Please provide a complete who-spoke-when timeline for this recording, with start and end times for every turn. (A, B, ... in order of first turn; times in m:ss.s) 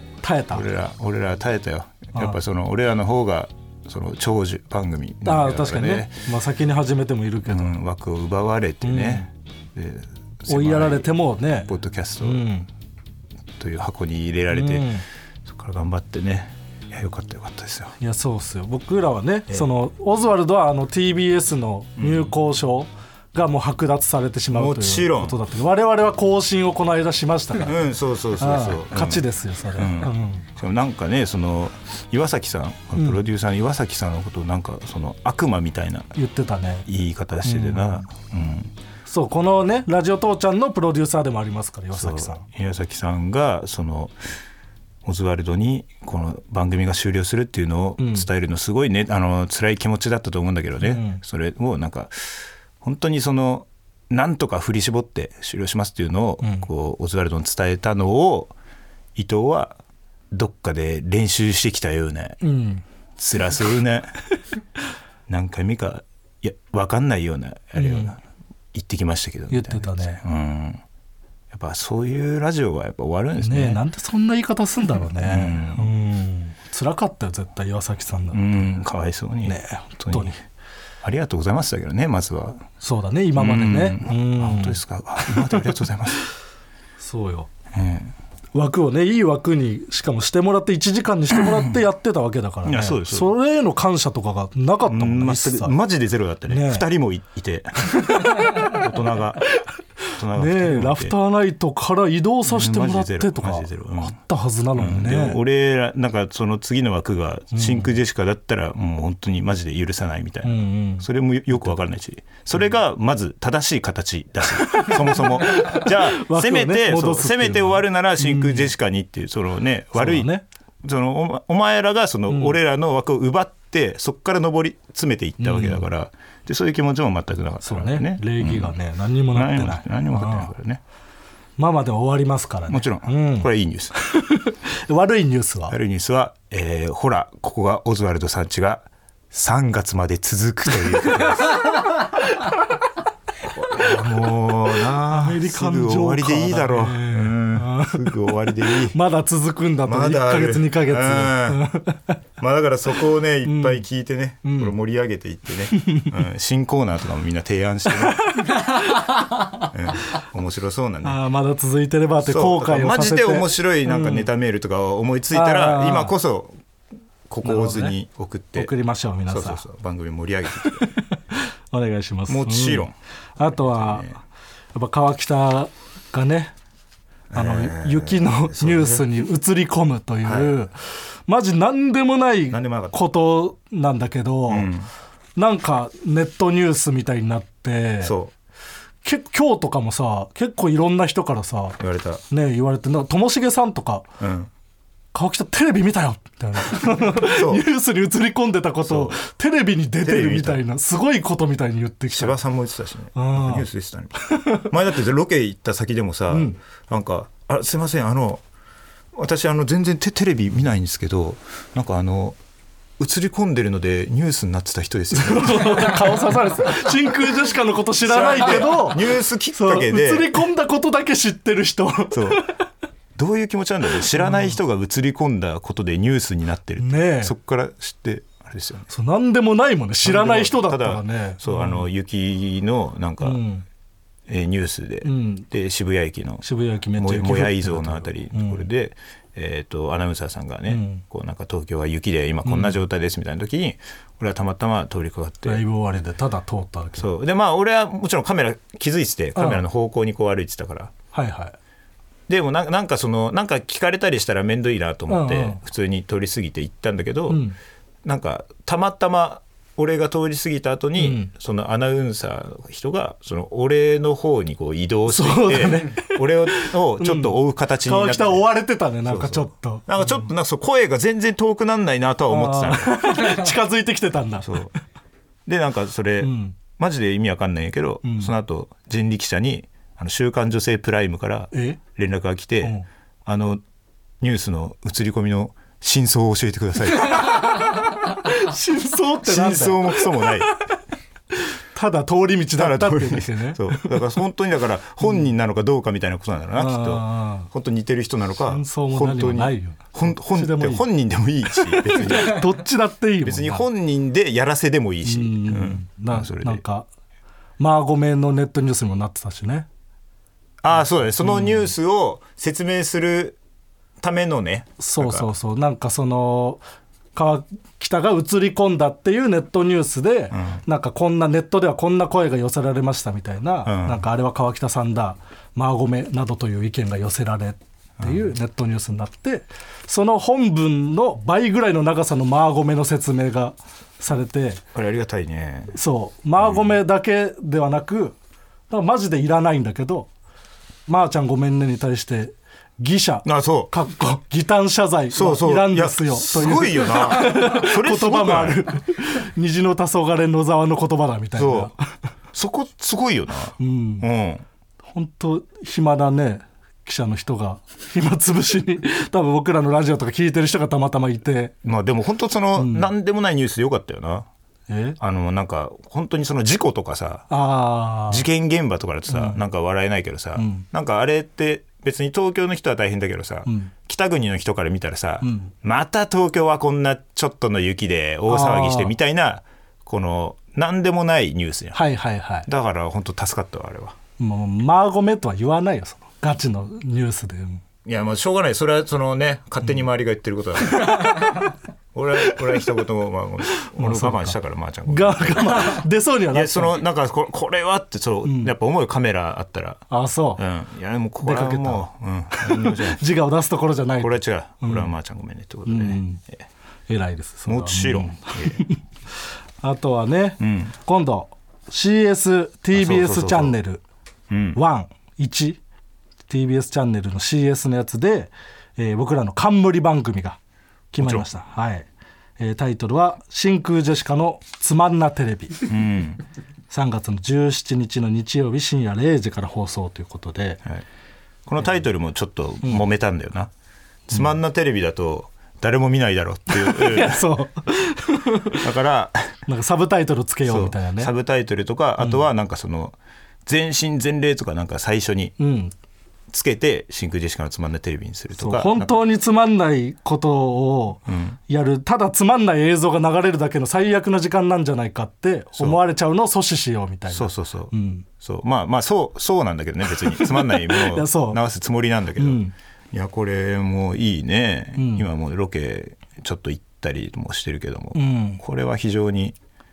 0:00.2-0:00.6 A
0:00.5-0:06.2 B
0:05.2-0:07.7 A
0:07.5-0:11.1 B
0:08.8-0:09.3 A
0:10.5-0:12.7 A
0:11.7-0:12.5 B
0:13.6-0:14.9 B
0:14.5-0:15.0 A
0:15.4-0:17.9 B
0:18.0-0:27.8 A
0:22.0-0:22.3 B
0:24.5-0:25.4 B
0:27.6-0:36.1 B
0:28.4-0:30.5 A
0:33.0-0:33.2 A
0:36.1-0:36.8 A
0:36.8-0:38.7 B
0:37.4-0:38.1 A
0:39.0-0:42.4 A
0:42.0-0:44.1 B
0:45.0-0:58.5 B
0:48.0-0:48.3 A
0:50.8-0:51.2 A
0:56.4-0:56.7 A
0:59.2-0:59.8 B
1:00.3-1:02.4 B
1:02.4-1:02.8 A
1:03.2-1:04.1 B
1:05.3-1:08.2 B
1:07.8-1:08.2 A
1:08.7-1:10.8 B
1:09.5-1:10.2 A
1:11.5-1:13.8 B
1:13.4-1:18.6 A
1:15.2-1:15.9 B
1:18.3-1:20.3 B
1:19.4-1:20.4 A
1:21.0-1:22.6 B
1:22.8-1:24.8 A
1:23.3-1:26.2 B
1:27.0-1:27.5 A
1:27.7-1:28.1 B
1:28.5-1:35.7 A
1:32.6-1:33.3 B
1:34.8-1:39.5 B
1:36.5-1:36.8 A
1:38.0-1:38.7 A
1:40.2-1:41.1 B
1:40.3-1:45.4 A
1:42.4-1:44.1 B
1:44.8-2:00.3 B
1:47.5-1:47.9 A
1:50.4-1:51.0 A
1:54.6-1:58.7 A
1:59.9-2:00.4 A
2:00.8-2:08.8 B
2:02.3-2:02.6 A
2:05.4-2:05.8 A
2:07.6-2:10.5 A
2:09.3-2:10.8 B
2:11.6-2:15.8 A
2:12.7-2:13.9 B
2:15.7-2:21.6 B
2:23.4-2:29.0 B
2:25.1-2:28.1 A
2:28.7-2:32.2 A
2:29.8-2:31.6 B
2:32.4-2:38.2 B
2:33.4-2:33.8 A
2:34.4-2:34.7 A
2:35.7-2:36.1 A
2:38.1-2:39.0 A
2:39.6-2:41.2 B
2:41.0-2:44.3 A
2:42.2-2:46.5 B
2:45.3-2:46.1 A
2:47.3-2:48.7 B
2:47.4-2:48.0 A
2:48.5-2:49.6 A
2:49.3-2:50.9 B
2:50.6-2:54.2 A
2:52.3-2:54.2 B
2:54.7-2:56.5 A
2:57.3-2:59.0 B
2:57.3-3:00.7 A
3:00.2-3:00.5 B
3:01.3-3:04.7 A
3:02.5-3:03.0 B
3:04.5-3:04.9 B
3:05.4-3:08.1 A
3:08.0-3:08.3 B
3:09.0-3:11.8 A
3:11.8-3:12.2 B
3:12.3-3:14.1 A
3:14.2-3:14.5 B
3:15.1-3:22.4 A
3:16.8-3:17.6 B
3:18.8-3:19.2 B
3:20.0-3:20.6 B
3:22.1-3:28.4 B
3:23.1-3:23.7 A
3:24.2-3:24.6 A
3:26.3-3:26.6 A
3:29.1-3:32.4 B
3:33.0-3:36.2 B
3:35.1-3:42.6 A
3:38.0-3:40.4 B
3:42.1-3:42.4 B
3:43.2-3:48.9 B
3:44.1-3:44.6 A
3:46.8-3:47.3 A
3:48.9-3:51.8 A
3:50.0-3:53.4 B
3:53.2-3:53.6 A
3:54.3-3:56.4 B
3:55.0-3:55.4 A
3:56.4-3:58.6 A
3:57.0-4:05.6 B
4:00.7-4:01.0 A
4:02.4-4:02.8 A
4:05.4-4:07.0 A
4:07.0-4:10.9 B
4:09.4-4:09.6 A
4:11.1-4:11.6 A
4:12.3-4:17.4 B
4:15.1-4:15.6 A
4:17.3-4:17.6 A
4:18.0-4:28.5 B
4:21.0-4:21.3 A
4:25.1-4:30.2 A
4:29.1-4:33.4 B
4:32.3-4:34.6 A
4:34.4-4:34.7 B
4:35.4-4:43.6 B
4:36.2-4:36.6 A
4:38.0-4:38.3 A
4:41.5-4:41.8 A
4:44.2-4:47.4 B
4:47.1-4:50.7 A
4:49.2-4:50.5 B
4:51.3-4:54.0 A
4:52.6-5:02.4 B
4:56.5-4:57.5 A
4:58.5-5:00.8 A
5:01.6-5:03.7 A
5:03.2-5:06.6 B
5:05.0-5:06.9 A
5:07.6-5:09.7 A
5:10.6-5:13.4 B
5:11.2-5:11.7 A
5:14.0-5:15.3 B
5:14.8-5:16.6 A
5:17.1-5:34.6 A
5:23.6-5:24.0 B
5:28.0-5:28.3 B
5:34.7-5:35.7 B
5:35.7-5:38.2 A
5:36.4-5:36.7 B
5:38.7-5:40.1 A
5:40.9-5:51.9 A
5:43.2-5:43.7 B
5:45.1-5:48.6 B
5:51.4-5:51.7 B
5:52.3-5:54.4 B
5:53.6-5:54.0 A
5:54.9-6:01.5 A
6:01.6-6:04.3 B
6:02.5-6:02.9 A
6:04.7-6:05.0 A
6:05.0-6:07.3 B
6:07.3-6:08.2 A
6:08.1-6:21.8 B
6:09.1-6:09.4 A
6:10.4-6:10.6 A
6:13.4-6:13.7 A
6:15.2-6:15.5 A
6:18.3-6:18.9 A
6:21.7-6:22.5 A
6:22.5-6:24.0 B
6:24.2-6:27.6 A
6:27.8-6:31.4 B
6:31.9-6:39.8 B
6:33.5-6:34.4 A
6:34.9-6:36.8 A
6:38.2-6:38.5 A
6:39.9-6:40.4 A
6:40.4-6:43.0 B
6:41.2-6:44.9 A
6:44.0-6:46.4 B
6:45.6-6:46.2 A
6:46.9-6:48.8 A
6:47.4-6:48.6 B
6:49.6-6:53.8 A
6:50.4-6:50.7 B
6:52.7-6:53.6 B
6:54.3-6:54.6 B
6:54.5-6:55.6 A
6:56.3-7:00.4 A
7:00.9-7:01.9 A
7:02.4-7:05.7 A
7:05.7-7:06.2 B
7:06.7-7:10.6 A
7:11.4-7:13.5 B
7:14.1-7:17.2 B
7:16.5-7:18.6 A
7:18.6-7:19.3 B
7:19.5-7:21.1 A
7:20.5-7:25.3 B
7:25.4-7:25.7 A
7:26.3-7:28.9 B
7:28.4-7:38.0 A
7:31.1-7:31.4 B
7:37.1-7:42.4 B
7:40.1-7:41.4 A
7:42.2-7:42.5 A
7:42.9-7:49.4 B
7:44.8-7:45.0 A
7:47.9-7:48.4 A